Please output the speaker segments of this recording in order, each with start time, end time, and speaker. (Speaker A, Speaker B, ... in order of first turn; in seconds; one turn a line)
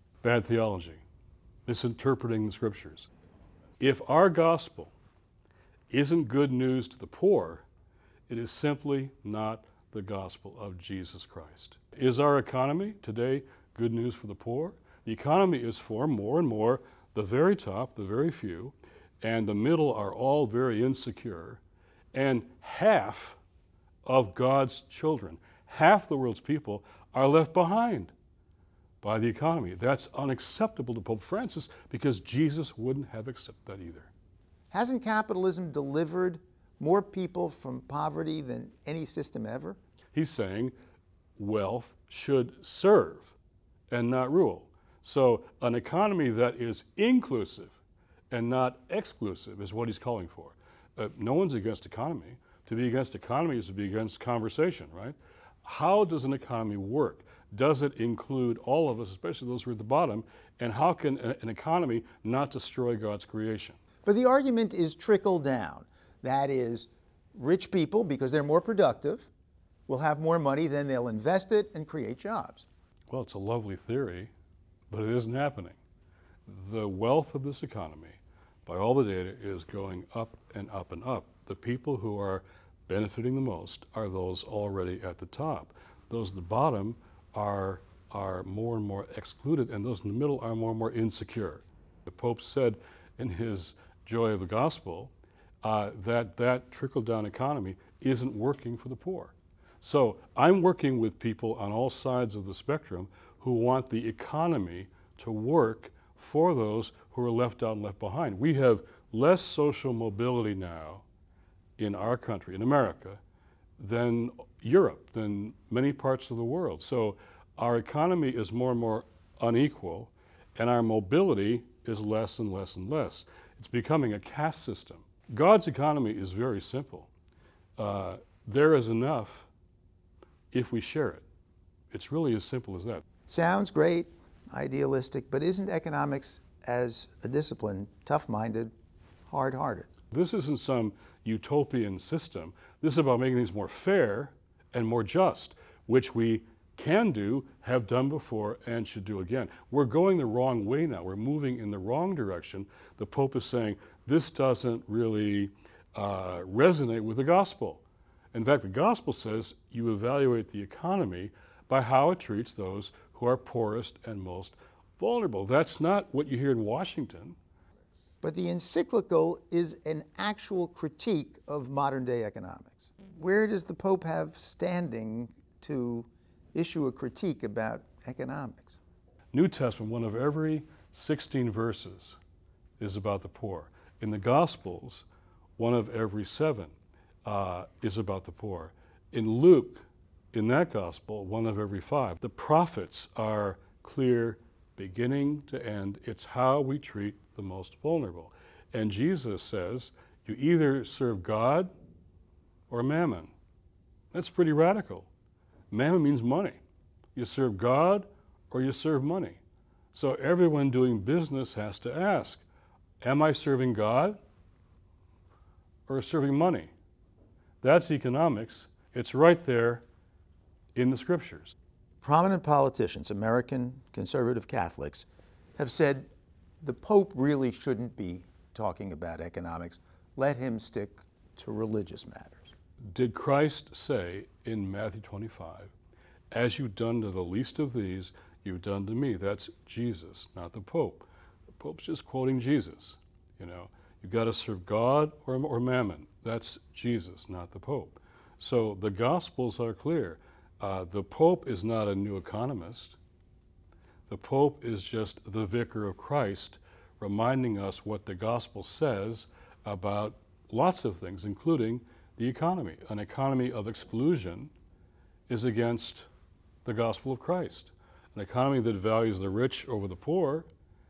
Speaker A: 0.2-1.0
Speaker A: 1.7-3.1
Speaker A: 3.8-4.9
Speaker A: 5.9-7.7
Speaker A: 8.3-21.6
Speaker A: 22.1-23.4
Speaker A: 24.1-28.1
Speaker A: 29.0-34.1
Speaker B: 34.7-39.8
Speaker A: 40.1-40.7
Speaker A: 41.4-43.4
Speaker A: 43.9-47.8
Speaker A: 48.3-63.8
Speaker B: 64.0-69.3
Speaker B: 69.9-72.7
Speaker A: 73.1-74.3
Speaker A: 74.9-75.8
Speaker A: 76.5-95.1
Speaker A: 95.6-111.0
Speaker A: 111.8-113.2
Speaker A: 113.8-127.1
Speaker A: 127.8-129.5
Speaker A: 130.5-131.3
Speaker A: 131.9-133.0
Speaker B: 133.3-138.7
Speaker B: 139.3-139.9
Speaker A: 140.1-167.4
Speaker B: 168.2-178.8
Speaker A: 179.3-182.2
Speaker A: 182.8-185.1
Speaker A: 185.6-186.7
Speaker A: 187.2-201.7
Speaker A: 202.7-203.3
Speaker A: 204.1-205.1
Speaker A: 205.7-206.6
Speaker A: 207.2-209.4
Speaker A: 209.9-212.4
Speaker A: 213.0-214.2
Speaker A: 215.9-216.7
Speaker A: 217.6-219.8
Speaker A: 220.8-221.5
Speaker B: 222.0-226.1
Speaker B: 226.6-232.5
Speaker A: 232.9-235.7
Speaker A: 236.3-253.0
Speaker A: 254.1-264.5
Speaker A: 265.3-266.1
Speaker A: 266.6-270.5